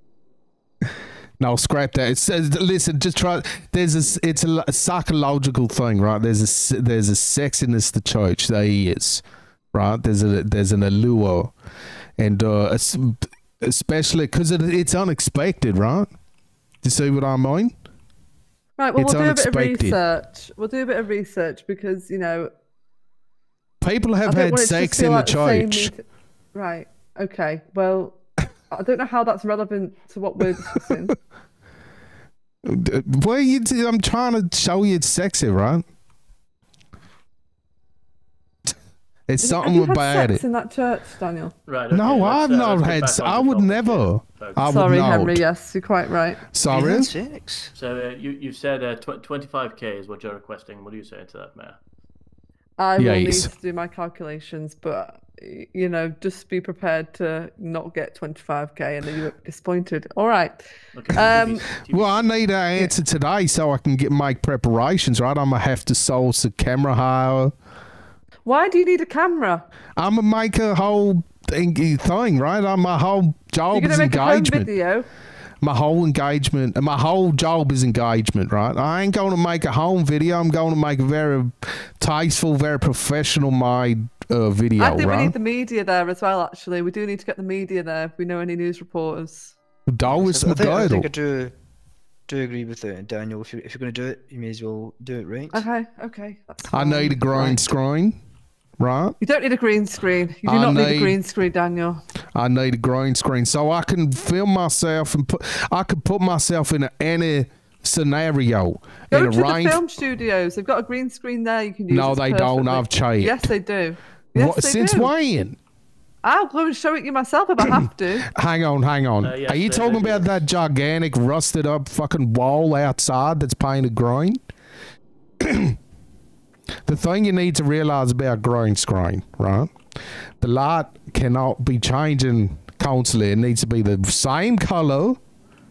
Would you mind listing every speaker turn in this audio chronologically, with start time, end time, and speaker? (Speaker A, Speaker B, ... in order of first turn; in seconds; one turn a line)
Speaker A: 1.4-9.2
Speaker A: 9.7-11.5
Speaker A: 12.2-16.1
Speaker A: 16.8-17.7
Speaker B: 18.8-22.5
Speaker A: 19.0-20.0
Speaker A: 23.8-25.9
Speaker B: 24.2-26.0
Speaker B: 26.5-28.2
Speaker B: 28.7-31.2
Speaker A: 32.6-35.8
Speaker A: 39.3-40.4
Speaker B: 39.4-41.5
Speaker C: 41.7-44.9
Speaker A: 41.9-45.4
Speaker B: 44.6-46.4
Speaker A: 46.5-47.1
Speaker D: 46.7-47.7
Speaker C: 47.7-51.8
Speaker B: 52.8-60.6
Speaker A: 53.0-53.5
Speaker C: 60.9-62.3
Speaker B: 61.1-61.6
Speaker A: 61.9-67.5
Speaker B: 68.5-69.6
Speaker A: 70.0-74.7
Speaker B: 73.7-75.1
Speaker A: 75.6-85.3
Speaker B: 84.8-89.5
Speaker A: 89.9-91.1
Speaker D: 90.1-91.5
Speaker D: 92.3-95.6
Speaker B: 95.5-97.6
Speaker A: 96.7-98.2
Speaker A: 98.8-99.2
Speaker B: 99.2-102.0
Speaker A: 100.4-101.2
Speaker A: 102.3-109.8
Speaker B: 109.1-115.1
Speaker A: 111.9-113.5
Speaker A: 114.3-115.6
Speaker B: 116.2-118.3
Speaker A: 118.3-124.4
Speaker C: 119.2-120.4
Speaker A: 125.4-125.8
Speaker A: 126.8-129.7
Speaker A: 130.4-135.2